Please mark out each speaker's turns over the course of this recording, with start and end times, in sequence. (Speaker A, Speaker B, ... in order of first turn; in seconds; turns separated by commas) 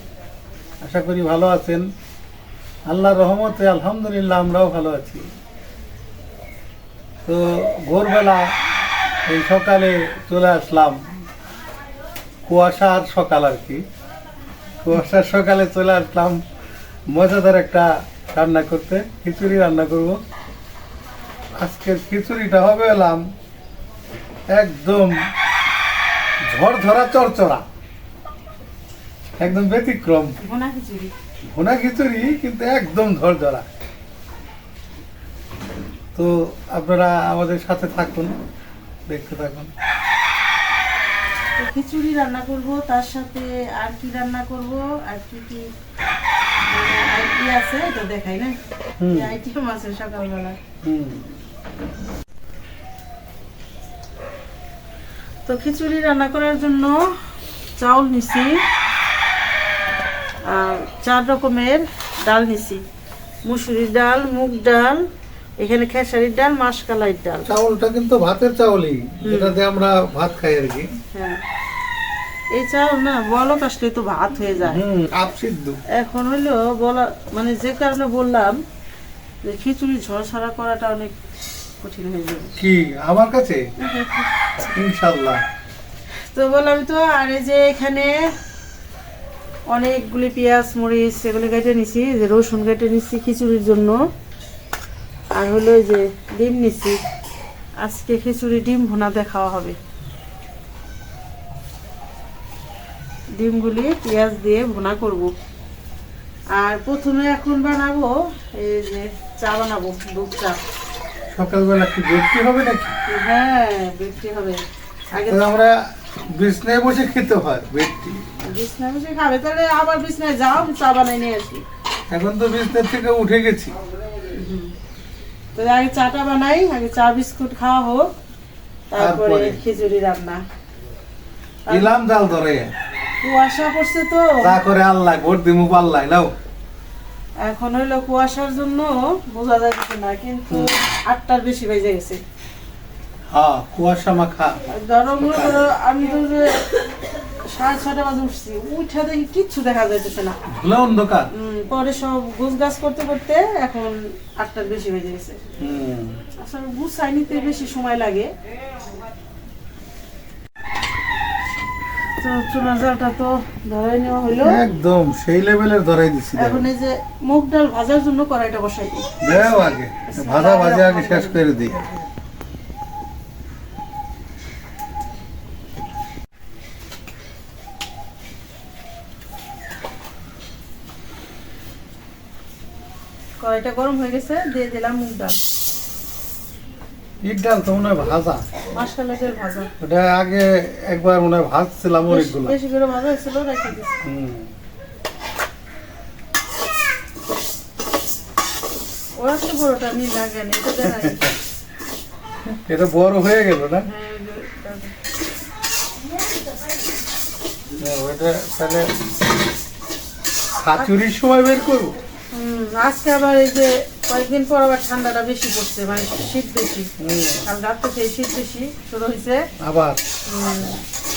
Speaker A: 0.8-1.9, Speaker A: 2.9-5.3, Speaker A: 7.2-8.5, Speaker A: 9.3-11.1, Speaker A: 12.5-13.9, Speaker A: 14.8-16.4, Speaker A: 17.1-20.2, Speaker A: 21.6-23.3, Speaker A: 24.5-25.2, Speaker A: 26.5-27.6, Speaker A: 29.4-30.4, Speaker B: 30.4-31.1, Speaker A: 31.5-33.6, Speaker A: 36.1-38.4, Speaker A: 39.1-39.7, Speaker B: 41.6-45.7, Speaker B: 46.7-48.6, Speaker A: 49.0-49.4, Speaker B: 49.1-50.6, Speaker A: 50.8-51.2, Speaker B: 55.5-57.0, Speaker B: 57.8-58.6, Speaker B: 60.5-62.8, Speaker B: 63.5-65.0, Speaker B: 65.6-67.5, Speaker A: 67.5-70.9, Speaker B: 69.2-69.6, Speaker B: 71.1-71.4, Speaker B: 72.5-74.8, Speaker A: 74.7-75.8, Speaker B: 75.9-78.6, Speaker B: 79.4-81.2, Speaker B: 81.8-82.5, Speaker A: 82.6-83.7, Speaker B: 83.8-84.3, Speaker A: 84.7-85.4, Speaker B: 86.3-88.1, Speaker B: 89.7-94.0, Speaker B: 95.3-97.0, Speaker B: 97.8-99.8, Speaker B: 103.4-105.3, Speaker B: 106.5-110.6, Speaker A: 111.3-113.0, Speaker B: 113.1-115.5, Speaker A: 115.2-118.2, Speaker B: 118.4-121.7, Speaker A: 122.1-123.8, Speaker B: 124.3-124.7, Speaker B: 125.5-128.1, Speaker B: 128.9-130.4, Speaker A: 129.0-129.6, Speaker B: 131.7-132.0, Speaker A: 131.7-132.8, Speaker B: 133.2-134.5, Speaker A: 134.4-136.3, Speaker B: 137.4-142.2, Speaker A: 140.5-140.8, Speaker A: 143.3-144.6, Speaker B: 144.7-146.8, Speaker A: 145.2-145.7, Speaker B: 147.5-150.4, Speaker A: 150.5-151.3, Speaker B: 151.3-155.4, Speaker A: 155.6-156.2, Speaker B: 156.4-158.3, Speaker B: 162.2-164.6, Speaker A: 164.4-166.6, Speaker B: 166.4-172.0, Speaker A: 169.2-171.8, Speaker B: 183.4-185.4, Speaker A: 187.2-188.4, Speaker B: 188.7-189.7, Speaker A: 189.8-192.6, Speaker B: 192.1-194.0, Speaker A: 194.0-194.5, Speaker B: 199.2-201.3, Speaker A: 200.9-201.3, Speaker A: 202.4-203.9, Speaker B: 203.8-204.9, Speaker A: 207.8-208.9, Speaker A: 210.6-212.0, Speaker B: 212.3-216.9, Speaker A: 217.0-217.4, Speaker B: 217.4-219.4, Speaker A: 219.6-220.0, Speaker B: 220.3-220.8